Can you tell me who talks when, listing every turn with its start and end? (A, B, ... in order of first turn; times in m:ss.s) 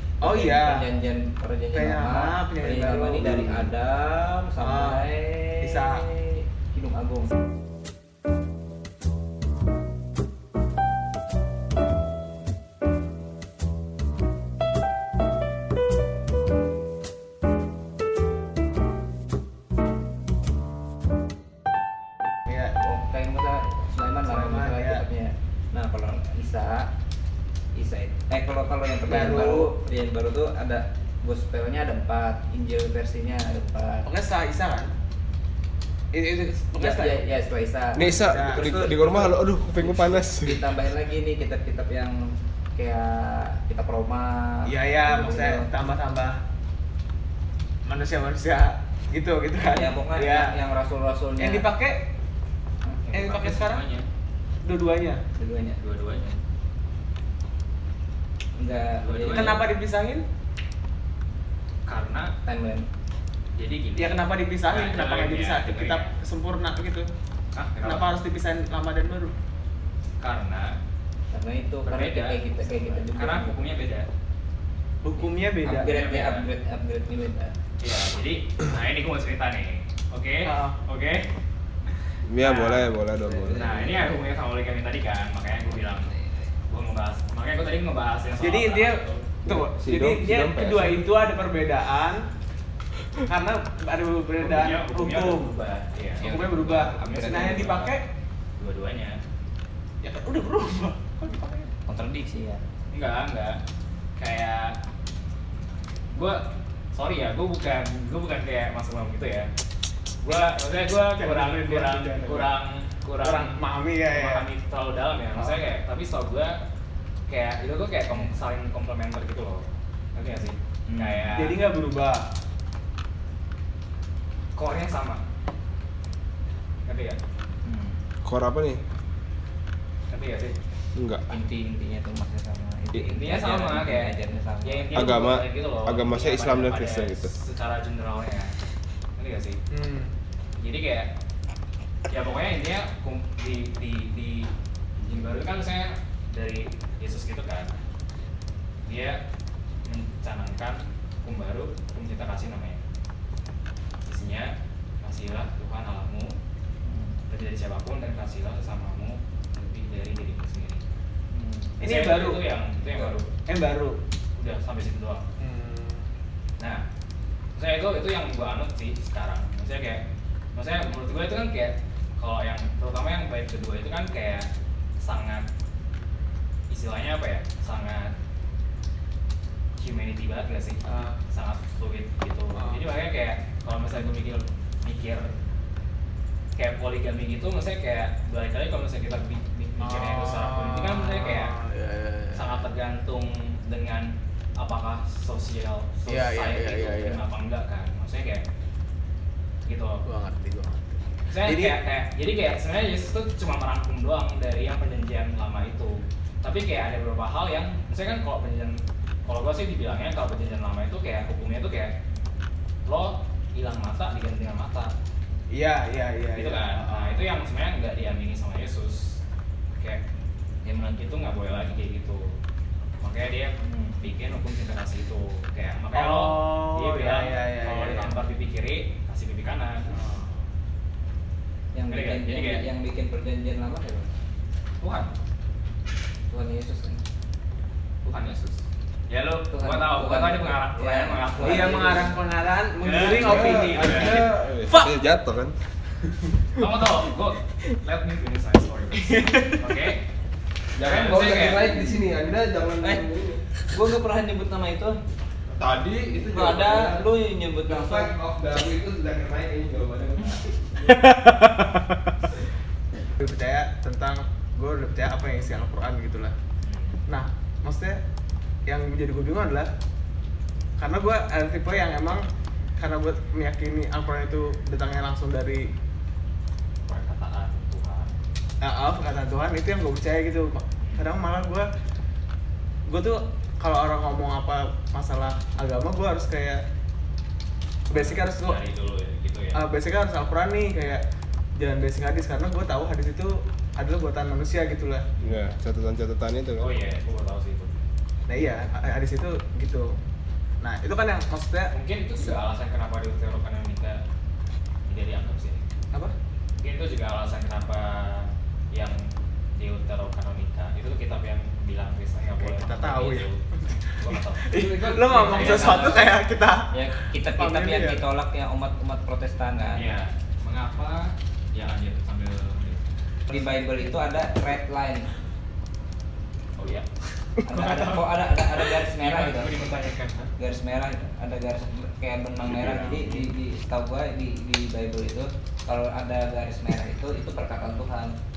0:00.2-0:00.9 A
0:00.2-0:07.3 B
0:01.7-0:03.7 A
0:04.6-0:05.1 A
0:05.6-0:06.0 A
0:22.5-0:22.8 A
0:22.8-0:26.9 B
0:24.2-0:25.0 A
0:27.7-0:34.1 B
0:29.0-0:29.7 A
0:34.0-0:34.9 A
0:36.1-0:37.2 A
0:36.8-0:45.7 B
0:38.0-0:40.6 C
0:38.2-0:38.6 A
0:44.6-0:46.4 A
0:47.8-0:50.5 A
0:49.6-0:51.7 B
0:51.4-0:52.0 A
0:53.0-0:54.0 D
0:53.1-0:53.8 A
0:54.6-0:55.2 A
0:55.4-0:55.8 B
0:55.8-0:56.4 D
0:58.6-0:59.6 B
0:59.0-0:59.6 D
0:59.3-1:00.2 A
1:01.9-1:02.3 D
1:02.4-1:02.9 B
1:03.6-1:06.1 D
1:04.0-1:07.1 A
1:07.5-1:08.1 D
1:07.8-1:09.3 A
1:10.2-1:10.8 D
1:11.3-1:13.7 B
1:11.8-1:14.1 D
1:15.0-1:15.9 A
1:15.2-1:17.5 B
1:15.8-1:16.5 D
1:17.8-1:21.2 D
1:20.4-1:20.8 A
1:22.2-1:23.9 C
1:22.4-1:22.9 D
1:23.2-1:24.0 B
1:23.5-1:26.1 D
1:26.7-1:29.2 D
1:28.4-1:32.2 A
1:29.4-1:31.1 C
1:33.3-1:35.6 A
1:34.4-1:37.8 D
1:36.2-1:38.1 A
1:36.2-1:37.9 B
1:38.6-1:39.2 D
1:40.0-1:41.7 A
1:41.9-1:42.6 B
1:42.9-1:43.6 D
1:44.2-1:44.8 D
1:46.1-1:49.5 D
1:50.2-1:53.6 D
1:50.9-1:52.5 A
1:53.2-1:54.4 A
1:54.1-1:56.6 D
1:55.3-1:55.6 A
1:57.3-2:01.6 D
2:00.9-2:01.5 B
2:01.3-2:02.2 A
2:04.6-2:05.2 D
2:06.9-2:07.2 D
2:07.7-2:08.0 B
2:08.2-2:08.8 C
2:10.1-2:10.6 D
2:10.9-2:11.2 C
2:11.3-2:15.1 B
2:13.0-2:18.5 D
2:14.9-2:17.3 C
2:19.2-2:19.6 D
2:19.7-2:20.1 A
2:20.6-2:21.1 D
2:22.1-2:27.8 D
2:28.8-2:29.2 D
2:29.8-2:32.8 D
2:34.1-2:36.3 D
2:36.8-2:37.2 B
2:37.3-2:40.8 D
2:41.3-2:41.8 B
2:41.8-2:42.5 A
2:41.8-2:43.3 D
2:43.5-2:44.0 A
2:44.4-2:45.2 D
2:45.4-2:46.1 A
2:47.6-2:50.0 D
2:50.5-2:54.5 D
2:55.0-2:55.5 D
2:56.7-2:58.1 D
2:59.8-3:00.8 D
3:00.8-3:01.2 A
3:01.3-3:05.3 D
3:02.6-3:02.8 A
3:06.6-3:11.5 D
3:09.8-3:12.7 A
3:12.3-3:18.4 D
3:16.1-3:17.2 A
3:19.7-3:20.0 D
3:20.1-3:21.8 A
3:21.3-3:31.9 D
3:32.8-3:34.9 D
3:35.5-3:37.3 A
3:36.3-3:39.2 D
3:39.8-3:40.0 D
3:40.6-3:42.4 D
3:43.0-3:49.9 D
3:45.9-3:48.2 A
3:49.9-3:50.4 A
3:51.7-3:54.1 B
3:51.9-3:52.6 D
3:54.8-3:55.1 D
3:56.3-3:57.0 B
3:58.1-4:02.0 D
3:59.5-4:02.2 B
4:01.4-4:05.0 A
4:02.8-4:04.3 D
4:03.0-4:05.6 C
4:06.5-4:10.0 D
4:09.0-4:09.6 A
4:10.8-4:13.4 C
4:10.8-4:11.7 D
4:11.4-4:12.0 B
4:12.8-4:15.0 B
4:15.5-4:17.1 C
4:16.1-4:18.2 B
4:17.7-4:20.9 C
4:20.8-4:21.8 A
4:23.2-4:26.4 A
4:26.6-4:27.0 D
4:27.1-4:28.0 A
4:28.7-4:29.7 A
4:30.8-4:32.2 A
4:32.8-4:35.7 A
4:36.8-4:38.1 D
4:38.6-4:41.7 A
4:40.8-4:41.1 D
4:42.9-4:46.6 A
4:47.9-4:48.6 A
4:47.9-4:49.6 D
4:49.5-4:51.0 A
4:51.6-4:55.1 A
4:55.2-4:55.5 D
4:55.2-4:56.7 C
4:56.6-4:57.8 D
4:58.3-5:00.0 A
5:00.6-5:01.7 A
5:01.7-5:04.0 D
5:04.9-5:05.6 D
5:06.6-5:09.0 D
5:09.6-5:13.4 D
5:12.4-5:18.0 A
5:14.0-5:16.4 D
5:15.2-5:16.1 B
5:16.7-5:19.9 B
5:19.7-5:22.8 D
5:23.3-5:25.1 B
5:26.6-5:26.9 D
5:27.5-5:29.6 B
5:27.5-5:30.3 D
5:30.4-5:38.1 B
5:32.4-5:33.3 C